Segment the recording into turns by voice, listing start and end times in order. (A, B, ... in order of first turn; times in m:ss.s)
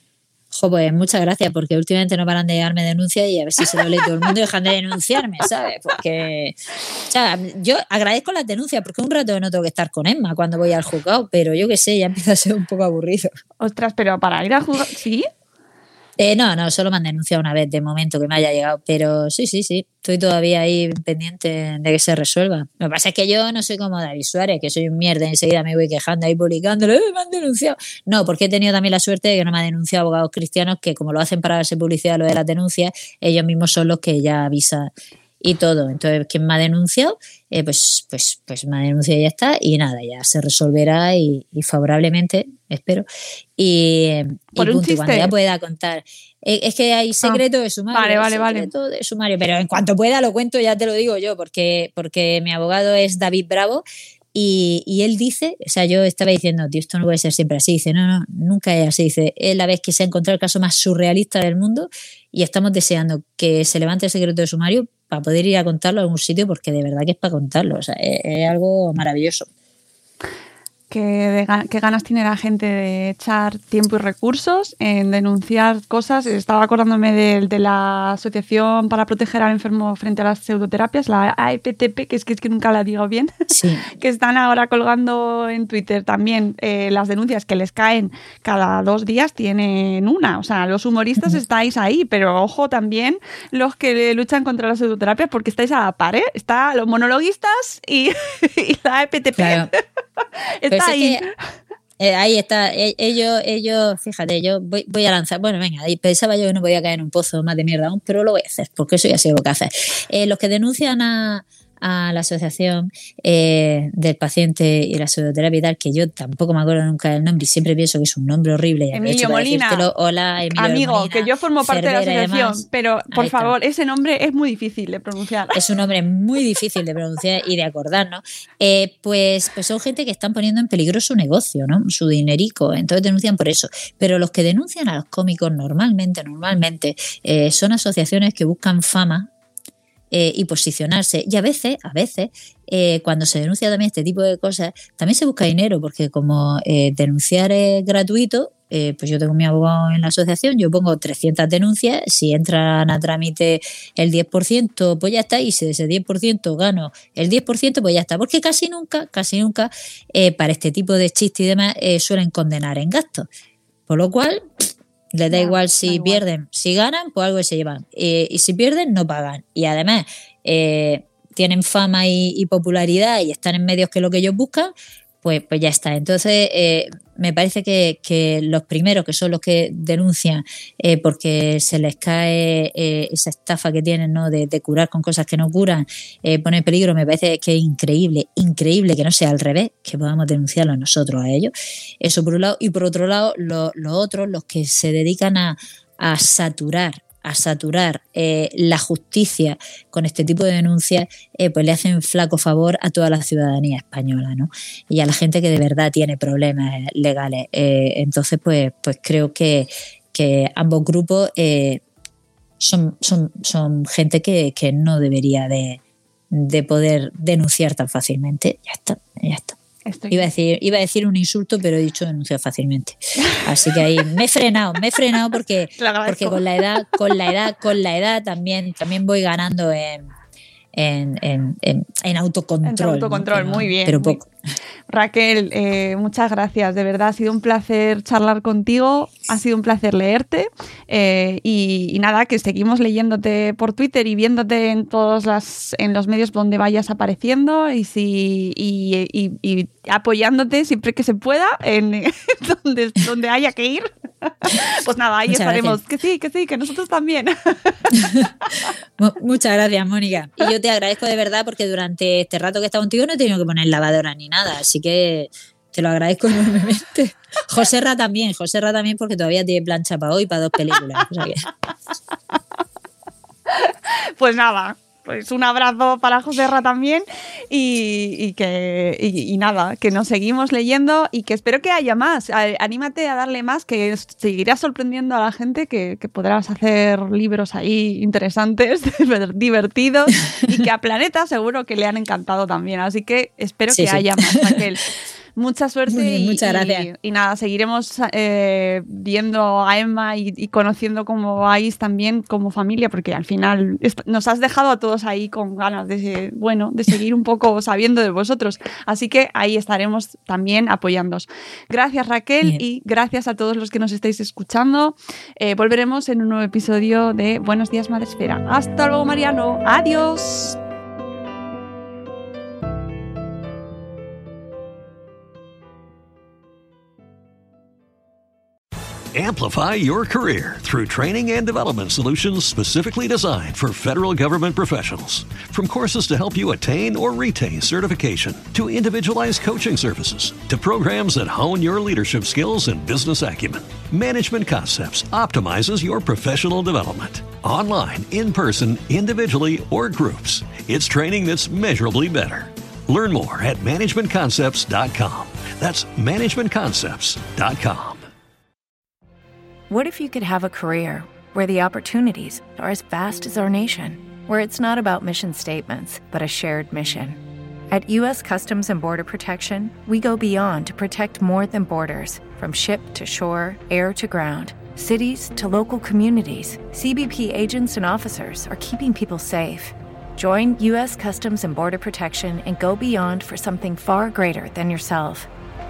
0:00.5-0:06.6 A
0:07.1-0:13.3 A
0:13.6-0:15.3 B
0:16.2-0:43.0 A
0:43.6-1:09.5 A
0:44.6-0:45.3 B
0:47.2-0:48.7 B
1:10.9-1:23.3 B
1:23.5-1:23.9 A
1:23.9-1:41.2 B
1:39.4-1:39.7 A
1:40.7-1:41.2 A
1:42.0-2:03.5 A
1:58.9-1:59.9 B
2:00.5-2:05.6 B
2:05.5-2:19.3 A
2:20.1-2:43.3 A
2:43.9-2:44.4 A
2:45.1-3:31.8 A
2:45.3-2:46.2 B
3:32.6-3:39.6 A
3:39.8-3:40.3 B
3:40.1-3:50.1 A
3:45.8-3:46.6 B
3:50.7-3:54.3 A
3:52.6-3:54.2 B
3:54.9-4:17.9 B
4:15.3-4:15.8 A
4:17.9-4:18.3 A
4:19.0-4:31.5 A
4:33.5-5:20.6 B
4:53.7-4:54.6 A
4:55.9-4:56.9 A
5:29.1-5:58.1 C
5:59.7-6:25.3 D